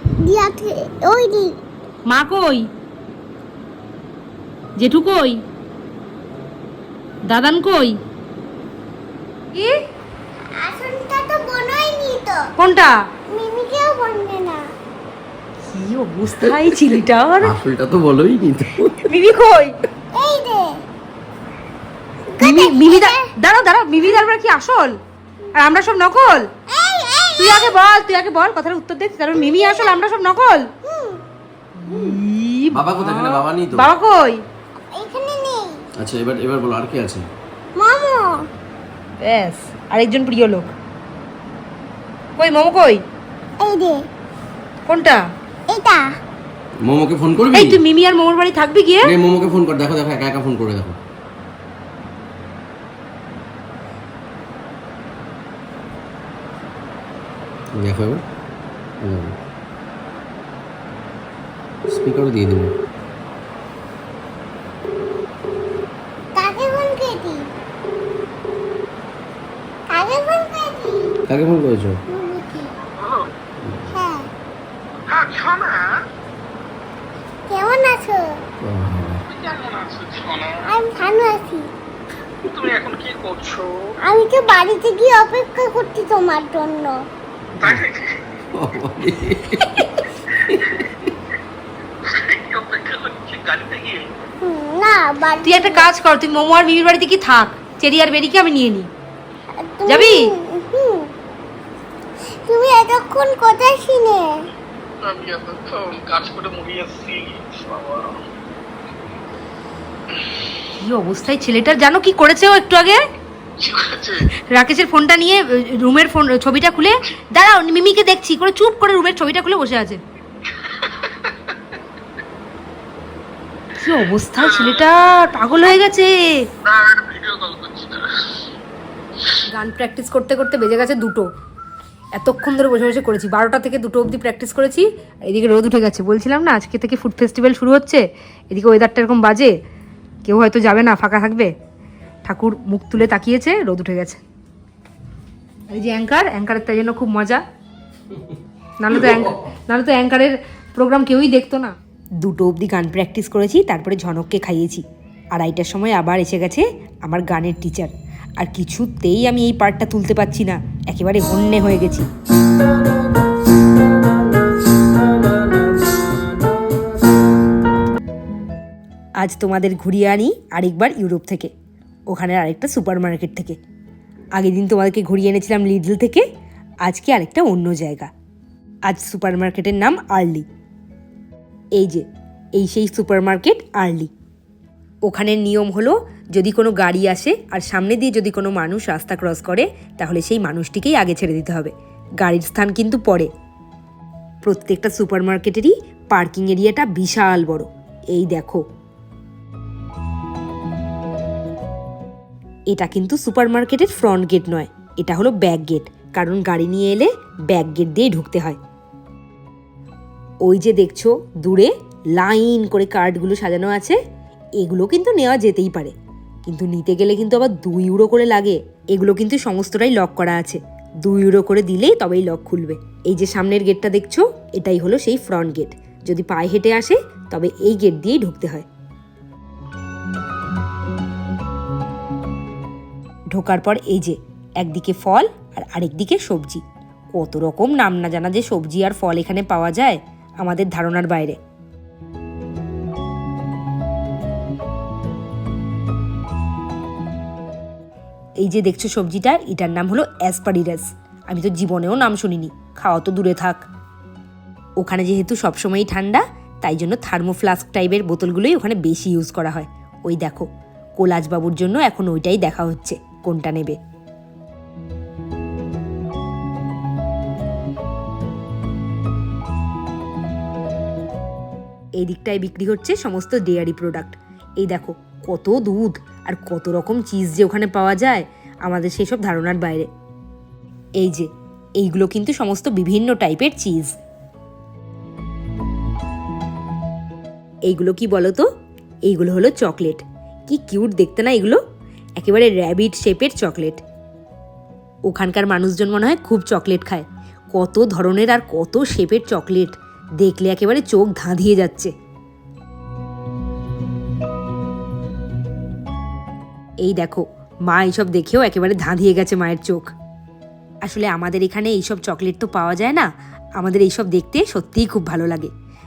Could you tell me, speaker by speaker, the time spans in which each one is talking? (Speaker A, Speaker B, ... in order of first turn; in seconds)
Speaker A: 0.2-1.6, 10.6-12.5, 13.3-14.7, 20.1-20.8, 22.3-23.3, 26.7-27.8, 29.3-30.0, 30.8-31.2, 31.9-32.2, 34.9-35.8, 37.8-38.5, 43.6-44.1, 45.7-46.1, 66.3-67.5, 69.9-71.1, 72.1-72.7, 73.9-74.3, 77.5-78.4, 80.7-81.7, 84.0-87.0, 94.4-95.9, 99.5-101.1, 102.3-104.5
Speaker B: 2.1-2.7, 4.8-5.4, 7.3-8.0, 9.5-9.8, 12.6-13.0, 15.7-17.6, 19.0-19.8, 22.4-25.0, 25.6-26.5, 27.4-30.7, 31.8-34.4, 39.2-40.7, 42.4-43.0, 44.9-45.2, 47.5-49.1, 95.4-98.9, 99.8-100.3, 110.7-113.0, 114.3-120.0, 123.8-126.5, 129.3-131.3, 132.2-139.5, 140.2-141.5, 142.2-144.2, 145.7-147.4, 148.8-162.1, 169.2-171.5, 172.1-173.6, 174.3-176.2, 176.8-178.1, 178.9-180.4, 181.8-184.1, 185.1-193.3, 194.4-198.6, 202.7-208.6, 210.4-214.0, 214.6-215.9, 216.4-228.7, 233.3-241.4, 248.4-253.6, 254.8-260.5, 261.0-263.8, 272.0-279.9, 281.0-283.9, 287.7-288.4, 289.1-291.6, 292.2-293.8, 295.1-301.9, 306.8-309.9, 310.8-315.5
Speaker C: 16.2-16.9, 17.4-19.1, 32.7-33.9, 36.0-37.3, 46.8-47.8, 49.0-51.0, 57.8-58.2, 59.0-59.4, 61.9-62.8, 71.3-72.0, 73.6-74.0, 78.6-79.2, 87.6-87.8, 88.5-91.1, 149.0-149.3
Speaker D: 75.1-75.8, 79.5-80.6, 82.5-83.5, 92.5-94.0, 105.0-108.2, 113.6-114.2, 127.3-127.9